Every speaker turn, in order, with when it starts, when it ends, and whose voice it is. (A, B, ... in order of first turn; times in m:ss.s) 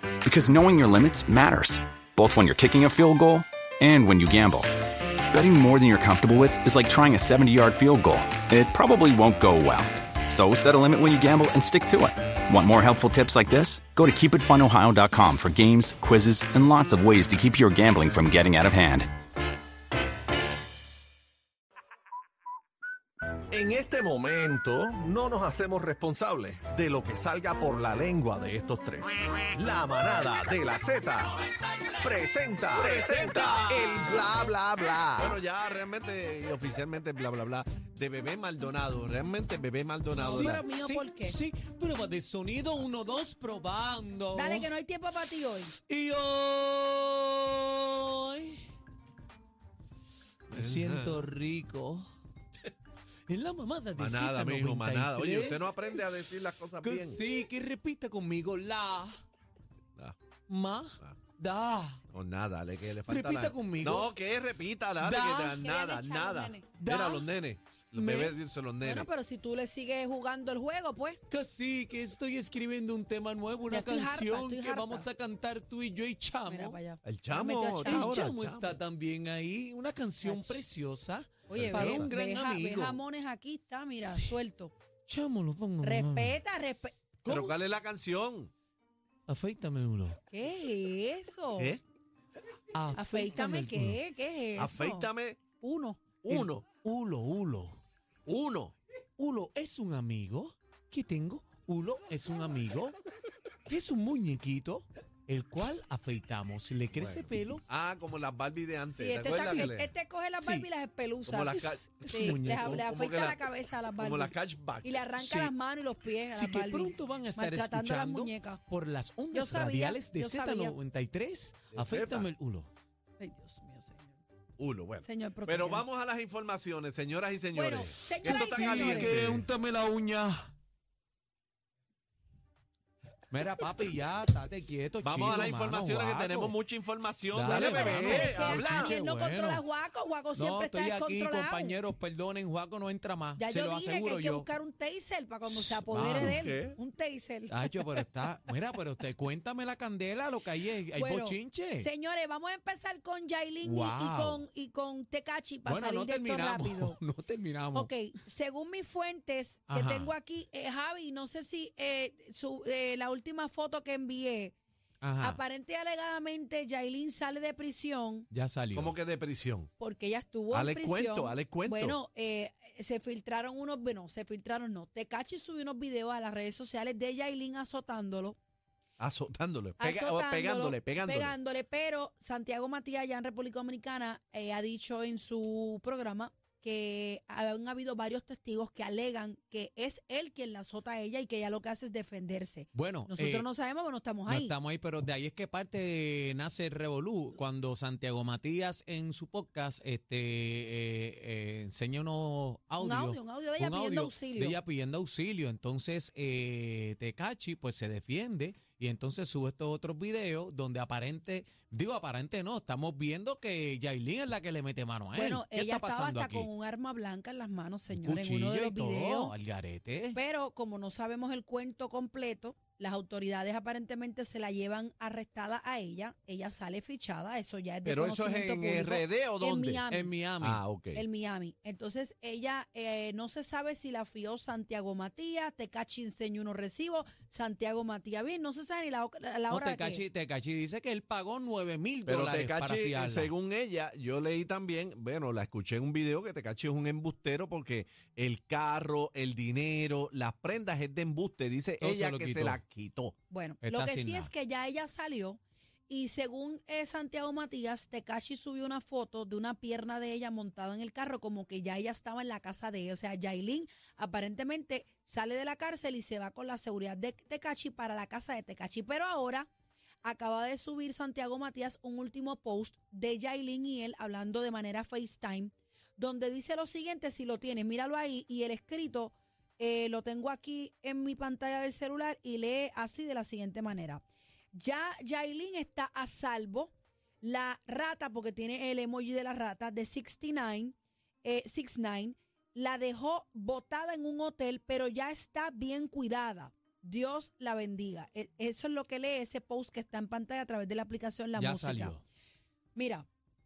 0:00.2-0:04.7 A
0:05.3-0:19.1 A
0:23.5-0:31.4 B
0:32.0-0:35.4 B
0:32.7-0:34.0 C
0:33.4-0:33.8 D
0:35.2-0:40.6 C
0:40.1-0:45.2 D
0:40.2-0:41.4 E
0:44.3-0:45.7 E
0:45.7-0:48.6 D
0:50.5-0:52.0 D
0:50.5-0:51.2 C
0:53.3-0:59.2 D
0:54.0-0:57.2 C
1:00.5-1:02.0 D
1:02.1-1:09.1 C
1:02.9-1:04.1 D
1:05.0-1:05.6 D
1:05.5-1:06.7 E
1:06.8-1:07.4 D
1:07.9-1:08.4 D
1:08.8-1:11.2 E
1:11.3-1:16.8 D
1:13.7-1:15.1 E
1:16.5-1:18.3 E
1:17.0-1:18.8 C
1:17.6-1:23.0 D
1:20.2-1:20.6 E
1:21.5-1:24.7 E
1:21.5-1:22.1 C
1:24.0-1:24.3 D
1:25.1-1:26.4 D
1:25.8-1:27.5 E
1:27.2-1:28.5 C
1:29.3-1:30.2 D
1:30.3-1:31.7 E
1:31.6-1:31.8 C
1:32.7-1:34.0 D
1:32.9-1:35.1 E
1:34.6-1:35.4 C
1:35.6-1:36.0 E
1:36.2-1:36.6 C
1:36.3-1:37.8 D
1:38.2-1:38.7 C
1:39.2-1:43.0 D
1:43.6-1:47.6 D
1:46.9-1:49.9 C
1:48.9-1:58.6 E
1:49.2-1:49.8 D
1:50.4-1:50.7 D
1:51.2-1:53.4 C
1:51.4-1:52.9 D
1:53.9-1:55.0 C
1:55.2-1:55.5 D
1:56.3-2:02.7 D
1:59.3-2:00.7 E
2:01.7-2:02.3 C
2:03.2-2:04.2 E
2:04.6-2:09.5 C
2:05.0-2:05.8 E
2:07.5-2:09.2 E
2:08.0-2:10.5 D
2:13.3-2:16.6 D
2:15.0-2:18.9 C
2:17.3-2:19.6 D
2:17.5-2:21.8 E
2:20.3-2:24.5 D
2:23.4-2:28.0 E
2:25.4-2:26.6 D
2:26.1-2:26.8 C
2:27.5-2:31.9 D
2:30.9-2:37.0 E
2:33.6-2:34.4 D
2:35.6-2:37.9 D
2:37.7-2:44.5 E
2:39.7-2:40.1 D
2:45.0-2:45.4 D
2:45.2-2:48.3 E
2:48.3-2:48.9 D
2:48.7-2:49.7 C
2:49.8-2:58.4 E
2:50.5-2:52.0 C
2:59.0-3:01.4 C
2:59.8-3:14.5 E
3:12.7-3:13.5 D
3:14.2-3:36.5 D
3:22.8-3:24.6 E
3:35.1-3:39.3 E
3:37.9-3:40.2 D
3:40.1-3:50.1 E
3:47.8-3:49.8 C
3:49.9-3:50.6 D
3:50.4-3:51.0 C
3:50.9-4:00.0 E
3:59.5-4:03.3 D
4:02.0-4:13.1 C
4:11.8-4:12.6 D
4:13.3-4:29.5 E
4:13.6-4:14.3 D
4:30.0-5:02.0 E
5:01.4-5:02.0 D
5:02.7-5:03.0 E